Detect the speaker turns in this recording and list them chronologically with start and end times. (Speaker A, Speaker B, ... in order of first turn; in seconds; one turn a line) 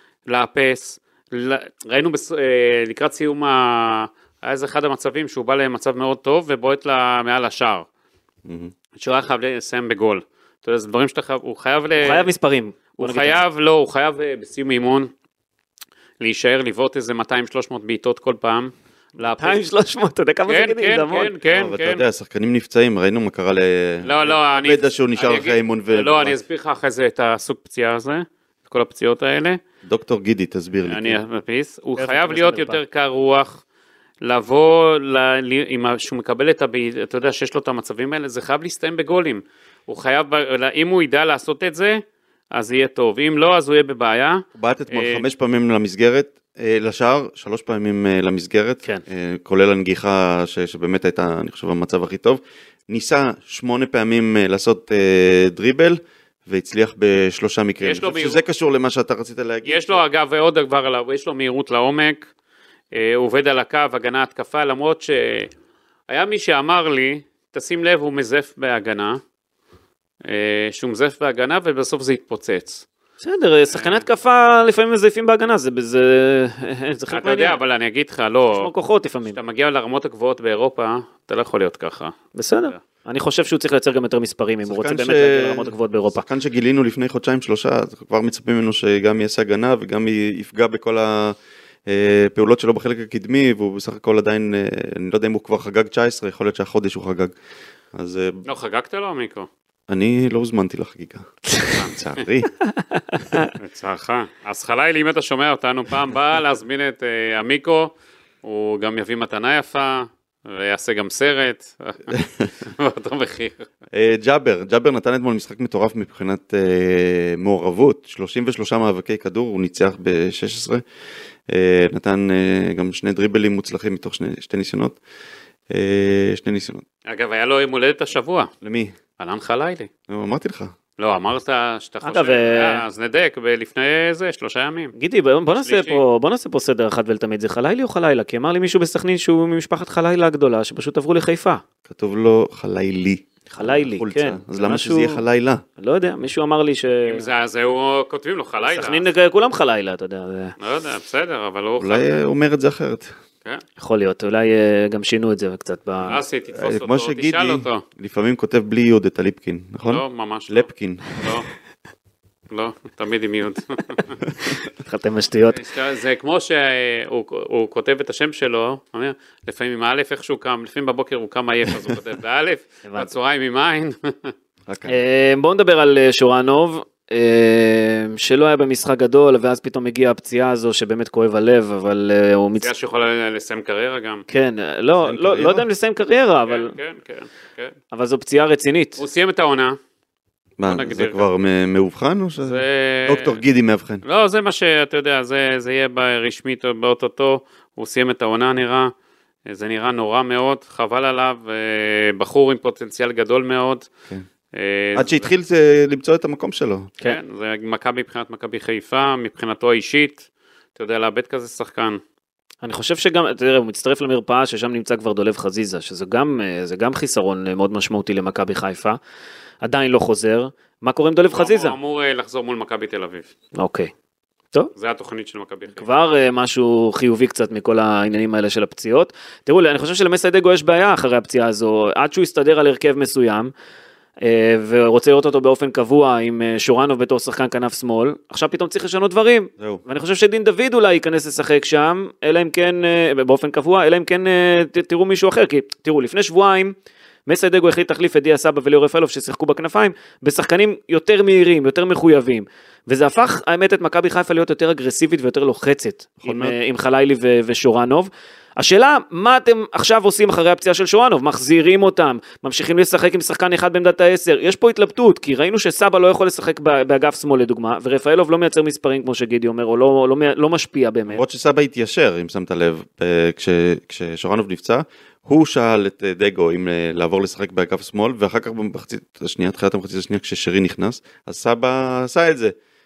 Speaker A: 0.2-7.8
Speaker B: 8.4-8.7
Speaker A: 9.0-12.3
Speaker C: 12.0-13.4
Speaker A: 13.0-15.1
Speaker A: 16.2-19.6
Speaker C: 19.4-21.3
Speaker A: 20.5-22.0
Speaker B: 21.5-26.4
Speaker A: 24.0-29.6
Speaker B: 29.8-31.2
Speaker A: 30.9-33.6
Speaker C: 32.0-32.8
Speaker A: 34.2-42.0
Speaker A: 42.5-45.2
Speaker B: 44.5-60.0
Speaker A: 57.8-58.4
Speaker A: 59.6-62.3
Speaker A: 62.9-65.5
Speaker A: 66.1-69.2
Speaker A: 70.2-72.8
Speaker C: 73.2-77.6
Speaker A: 73.7-74.0
Speaker A: 77.1-78.7
Speaker C: 78.5-79.4
Speaker A: 79.3-82.8
Speaker C: 82.3-86.2
Speaker B: 84.7-91.3
Speaker B: 91.9-97.3
Speaker B: 97.9-98.4
Speaker A: 98.5-99.5
Speaker B: 99.9-102.5
Speaker C: 102.9-103.5
Speaker A: 103.5-107.9
Speaker A: 108.4-113.7
Speaker B: 112.1-112.5
Speaker B: 113.9-120.8
Speaker B: 121.5-125.0
Speaker B: 125.7-126.8
Speaker A: 127.1-128.5
Speaker B: 128.6-128.9
Speaker A: 129.2-129.9
Speaker B: 130.1-130.7
Speaker A: 131.0-134.9
Speaker C: 132.0-132.8
Speaker C: 134.9-141.6
Speaker A: 135.6-136.0
Speaker B: 141.9-145.6
Speaker C: 143.5-145.2
Speaker C: 145.8-147.2
Speaker A: 147.1-149.1
Speaker C: 148.6-150.5
Speaker A: 150.6-152.2
Speaker B: 151.8-153.1
Speaker C: 153.8-156.2
Speaker A: 156.1-157.8
Speaker B: 156.1-161.1
Speaker A: 159.8-161.5
Speaker A: 162.5-164.2
Speaker C: 164.8-165.6
Speaker A: 165.5-174.3
Speaker B: 174.7-175.0
Speaker C: 174.9-182.7
Speaker A: 182.6-184.2
Speaker C: 184.3-186.7
Speaker B: 185.0-185.6
Speaker A: 186.5-187.7
Speaker C: 187.9-189.0
Speaker A: 189.0-189.8
Speaker B: 190.6-194.0
Speaker A: 190.7-191.2
Speaker A: 192.4-193.4
Speaker A: 194.0-198.9
Speaker A: 199.5-203.9
Speaker A: 204.5-205.3
Speaker B: 204.9-206.9
Speaker A: 207.0-212.0
Speaker C: 212.6-219.0
Speaker C: 219.6-221.8
Speaker A: 221.3-223.3
Speaker C: 223.6-223.9
Speaker A: 224.8-225.8
Speaker C: 225.8-233.5
Speaker C: 234.2-246.7
Speaker C: 247.2-271.2
Speaker B: 256.2-256.5
Speaker B: 271.1-282.5